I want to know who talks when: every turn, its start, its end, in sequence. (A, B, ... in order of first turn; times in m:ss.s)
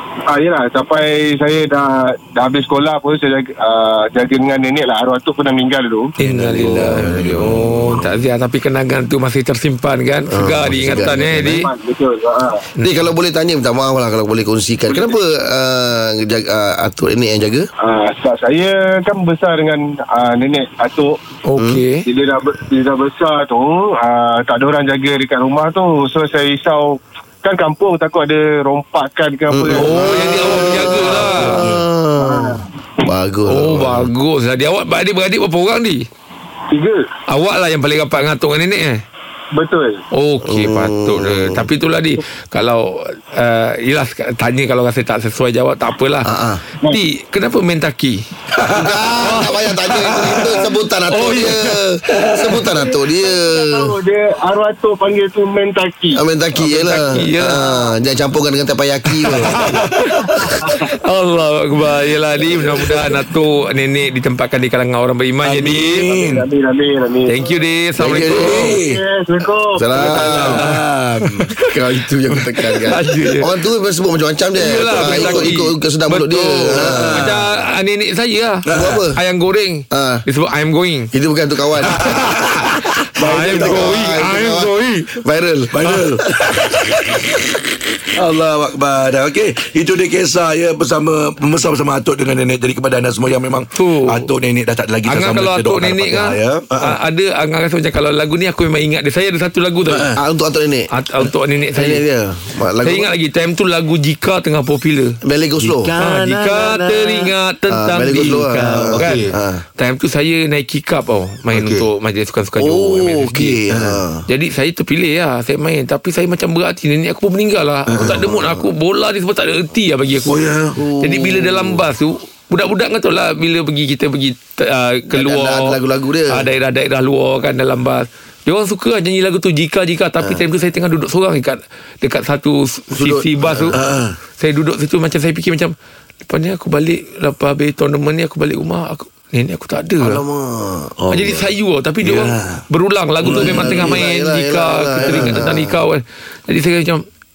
0:00.3-0:06.1 A
0:06.2-0:11.7 B
0:06.2-0:08.1 C
0:06.7-0:07.5 D
0:10.3-0:11.6 D
0:10.7-0:11.0 C
0:11.4-0:12.6 A
0:12.8-0:13.1 B
0:12.8-0:17.7 D
0:17.8-0:21.2 A
0:21.5-0:22.0 B
0:21.6-0:21.8 D
0:22.1-0:31.0 A
0:29.5-0:34.1 D
0:29.8-0:31.6 B
0:31.3-0:31.8 C
0:32.2-0:32.7 A
0:33.5-0:36.1 B
0:36.7-0:37.1 A
0:37.3-0:39.0 B
0:39.5-0:40.0 A
0:40.1-0:46.3 B
0:40.5-0:41.7 D
0:46.2-0:46.6 D
0:46.9-0:48.2 B
0:48.5-0:49.3 C
0:48.7-0:53.9 D
0:49.2-0:50.5 B
0:49.9-0:50.7 C
0:51.1-0:51.9 B
0:52.1-0:52.6 C
0:53.3-0:56.2 A
0:56.1-0:59.8 D
0:56.6-0:57.7 B
0:59.2-1:06.1 B
0:59.2-0:59.5 C
1:05.4-1:06.5 C
1:06.0-1:07.4 A
1:07.3-1:08.8 B
1:08.0-1:08.7 D
1:08.1-1:09.0 C
1:08.6-1:09.9 A
1:09.8-1:10.8 D
1:10.0-1:11.5 C
1:10.0-1:11.8 B
1:11.7-1:17.3 D
1:12.5-1:13.5 B
1:14.6-1:21.1 B
1:14.9-1:15.6 C
1:16.7-1:17.5 C
1:18.7-1:19.0 C
1:18.7-1:19.2 D
1:19.9-1:20.2 D
1:21.1-1:22.1 D
1:21.9-1:24.2 C
1:21.9-1:25.2 B
1:23.2-1:26.0 D
1:25.7-1:27.3 C
1:28.1-1:37.0 C
1:33.8-1:34.3 B
1:35.1-1:40.1 B
1:39.9-1:40.2 C
1:40.2-1:40.9 D
1:40.9-1:42.0 B
1:41.8-1:43.1 D
1:42.8-1:45.2 B
1:45.2-1:45.9 D
1:45.8-1:46.8 C
1:46.0-1:53.6 B
1:47.7-1:49.6 D
1:48.9-1:49.2 C
1:51.5-1:51.9 C
1:52.6-1:54.2 D
1:53.7-1:54.0 C
1:54.3-2:00.4 B
1:57.9-1:58.3 C
1:58.0-1:58.6 D
2:00.3-2:00.8 C
2:00.8-2:01.8 D
2:01.0-2:05.8 B
2:05.1-2:06.5 D
2:06.3-2:13.8 B
2:12.9-2:13.9 D
2:13.7-2:14.2 C
2:14.4-2:15.7 B
2:16.2-2:20.2 B
2:20.0-2:21.4 D
2:21.0-2:21.4 C
2:21.1-2:27.0 B
2:22.0-2:22.6 C
2:23.2-2:24.0 C
2:23.2-2:25.8 D
2:25.1-2:25.4 C